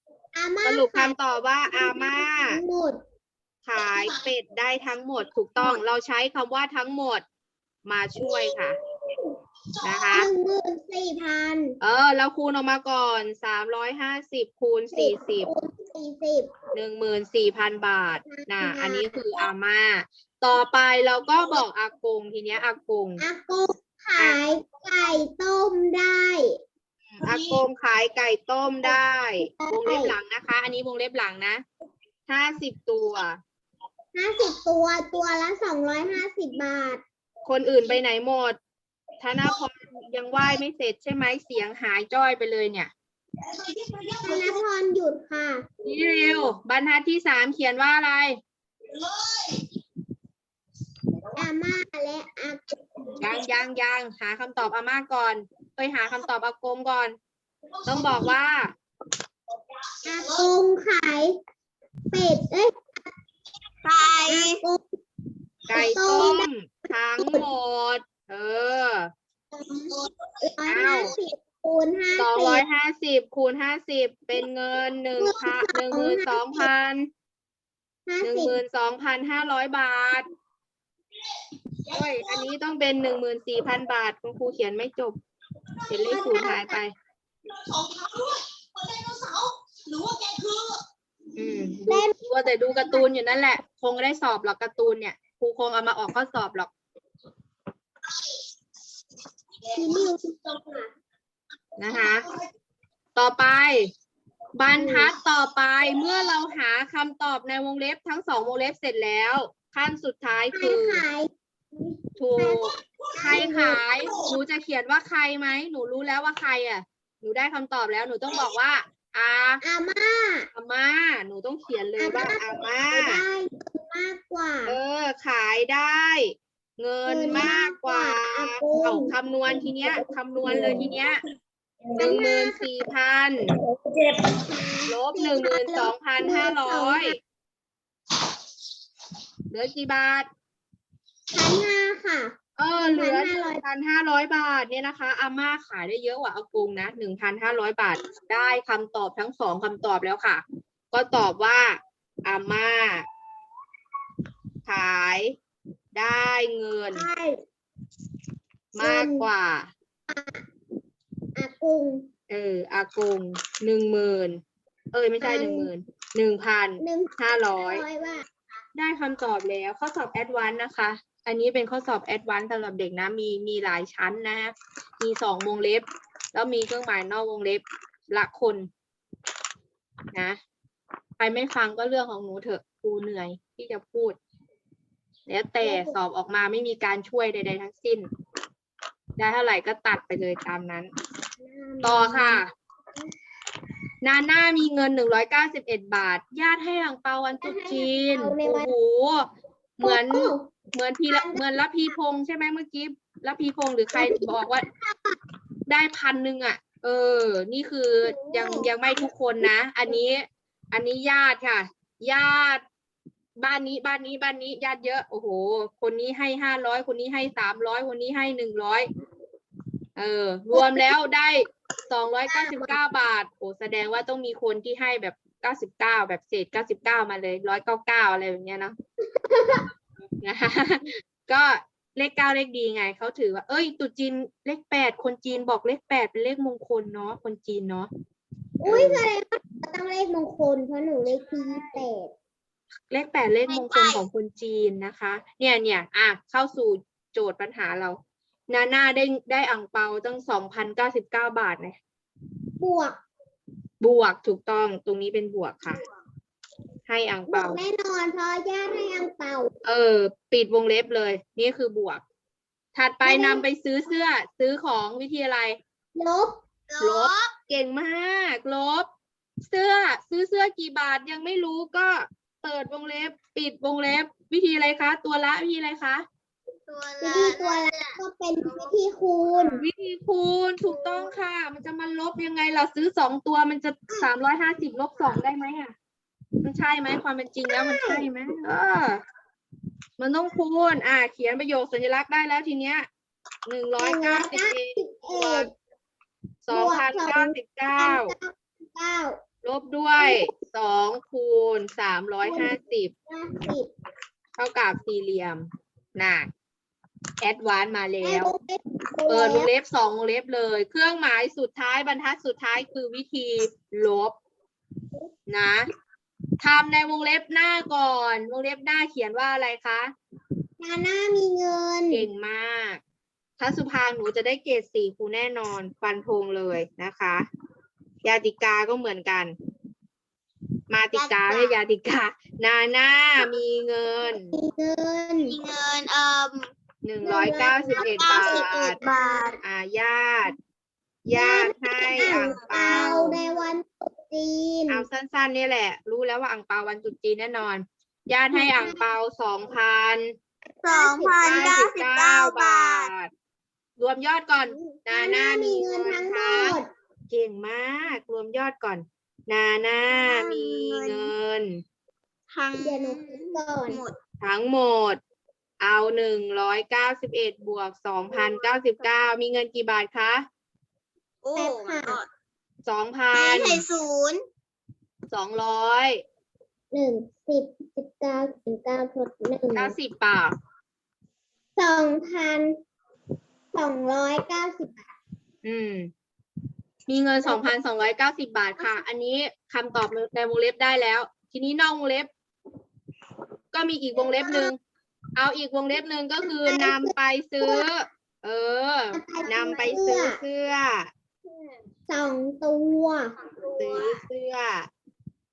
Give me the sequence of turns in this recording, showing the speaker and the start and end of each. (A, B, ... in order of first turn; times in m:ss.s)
0:00.4-0:01.2 A
0:00.6-0:02.6 B
0:02.2-0:03.0 A
0:03.6-0:07.2 B
0:07.9-0:08.8 B
0:09.8-0:10.3 B
0:10.1-0:11.8 A
0:11.8-0:15.5 B
0:14.9-0:16.5 A
0:16.7-0:23.2 B
0:18.3-0:19.1 A
0:23.2-0:26.6 A
0:27.1-0:31.6 B
0:28.9-0:30.1 A
0:32.3-0:33.4 B
0:34.1-0:37.0 A
0:37.4-0:38.6 B
0:39.2-0:42.9 B
0:44.2-0:45.6 A
0:45.8-0:48.4 B
0:51.4-0:52.8 A
0:53.2-0:57.2 B
0:57.9-0:58.7 B
1:00.0-1:01.4 A
1:02.1-1:03.0 A
1:03.8-1:04.6 C
1:04.3-1:04.8 A
1:05.7-1:09.1 B
1:05.7-1:06.5 A
1:07.2-1:07.5 A
1:09.5-1:12.6 A
1:10.6-1:11.1 B
1:12.2-1:17.1 B
1:15.2-1:16.7 A
1:18.1-1:18.6 A
1:18.2-1:20.3 B
1:21.9-1:25.2 B
1:25.9-1:26.9 B
1:25.9-1:26.8 A
1:31.4-1:36.7 B
1:31.9-1:32.2 A
1:32.7-1:33.1 A
1:39.7-1:40.9 A
1:41.8-1:42.3 B
1:43.2-1:43.9 B
1:44.6-1:51.0 B
1:44.7-1:45.1 A
1:50.5-1:53.9 A
1:52.2-1:59.6 B
1:59.6-2:00.5 A
2:00.5-2:03.2 B
2:02.0-2:04.8 A
2:04.6-2:11.2 B
2:07.0-2:09.1 A
2:09.8-2:10.9 A
2:11.9-2:12.7 A
2:12.0-2:13.5 B
2:14.3-2:17.2 A
2:14.9-2:17.2 B
2:19.5-2:20.3 B
2:21.3-2:23.6 A
2:22.6-2:33.1 B
2:34.7-2:35.4 B
2:35.9-2:37.1 B
2:36.9-2:37.4 A
2:38.8-2:39.7 B
2:38.8-2:39.3 A
2:40.1-2:40.4 A
2:41.4-2:42.1 A
2:42.3-2:44.4 B
2:44.9-2:47.8 B
2:45.2-2:45.7 A
2:46.8-2:48.3 A
2:48.8-2:58.7 B
3:00.1-3:00.4 B
3:01.2-3:04.2 B
3:05.3-3:08.1 B
3:05.6-3:06.0 A
3:09.2-3:10.9 B
3:11.4-3:12.4 A
3:11.8-3:12.5 B
3:14.0-3:19.3 B
3:17.4-3:18.7 A
3:19.8-3:24.7 B
3:19.8-3:20.5 A
3:21.1-3:21.9 A
3:23.9-3:25.2 A
3:25.7-3:32.6 B
3:28.0-3:28.5 C
3:33.4-3:38.9 B
3:40.0-3:48.8 B
3:40.5-3:40.9 A
3:42.3-3:42.8 A
3:49.0-3:49.6 A
3:50.2-3:57.9 B
3:58.6-4:02.1 A
3:58.6-3:59.0 B
4:01.3-4:01.7 B
4:02.9-4:08.0 B
4:03.5-4:04.0 C
4:08.5-4:11.8 B
4:12.6-4:13.0 A
4:13.8-4:15.8 B
4:16.9-4:17.6 B
4:17.3-4:19.5 A
4:19.6-4:22.0 B
4:22.8-4:25.6 B
4:23.0-4:23.4 A
4:26.0-4:26.4 A
4:26.7-4:27.3 C
4:26.8-4:28.9 B
4:29.5-4:36.0 B
4:36.7-4:38.8 C
4:37.0-4:39.6 A
4:39.6-4:45.7 B
4:40.7-4:41.2 C
4:46.4-4:49.0 B
4:47.4-4:48.0 A
4:50.0-4:52.9 B
4:53.4-4:55.5 B
4:53.8-4:55.5 A
4:56.5-4:58.1 B
4:56.5-4:59.2 A
4:59.4-5:02.9 B
5:00.0-5:00.3 A
5:02.2-5:02.6 A
5:03.1-5:03.7 A
5:04.4-5:06.3 B
5:07.2-5:08.3 B
5:08.0-5:09.5 A
5:09.1-5:14.2 B
5:15.3-5:15.7 B
5:16.4-5:19.9 B
5:20.6-5:22.1 A
5:21.9-5:22.8 B
5:23.4-5:27.3 B
5:28.0-5:29.4 B
5:30.7-5:34.3 B
5:30.9-5:31.6 C
5:34.3-5:35.4 A
5:35.2-5:36.5 C
5:36.8-5:38.8 B
5:37.0-5:39.4 A
5:37.8-5:39.4 C
5:39.4-5:40.4 B
5:41.1-5:43.2 B
5:41.1-5:44.8 A
5:41.9-5:43.4 C
5:44.7-5:50.1 B
5:48.3-5:48.9 A
5:50.6-5:51.3 A
5:50.6-5:52.9 C
5:51.2-5:53.1 B
5:53.8-5:56.6 B
5:54.5-5:56.7 A
5:57.1-6:01.6 B
5:59.9-6:01.1 C
6:02.3-6:04.0 C
6:02.6-6:03.8 A
6:04.2-6:05.0 B
6:05.6-6:10.3 B
6:08.1-6:08.9 C
6:11.2-6:12.1 C
6:11.4-6:12.0 A
6:12.6-6:13.6 B
6:13.1-6:14.2 C
6:15.1-6:16.0 B
6:16.7-6:19.8 A
6:19.6-6:20.3 B
6:21.6-6:22.6 A
6:23.5-6:24.8 A
6:25.4-6:25.9 B
6:26.9-6:32.1 B
6:33.5-6:34.6 B
6:34.0-6:34.5 A
6:35.2-6:40.9 B
6:36.2-6:37.7 A
6:38.9-6:40.2 A
6:41.2-6:41.6 C
6:41.9-6:43.1 A
6:43.2-6:44.0 C
6:43.6-6:44.7 B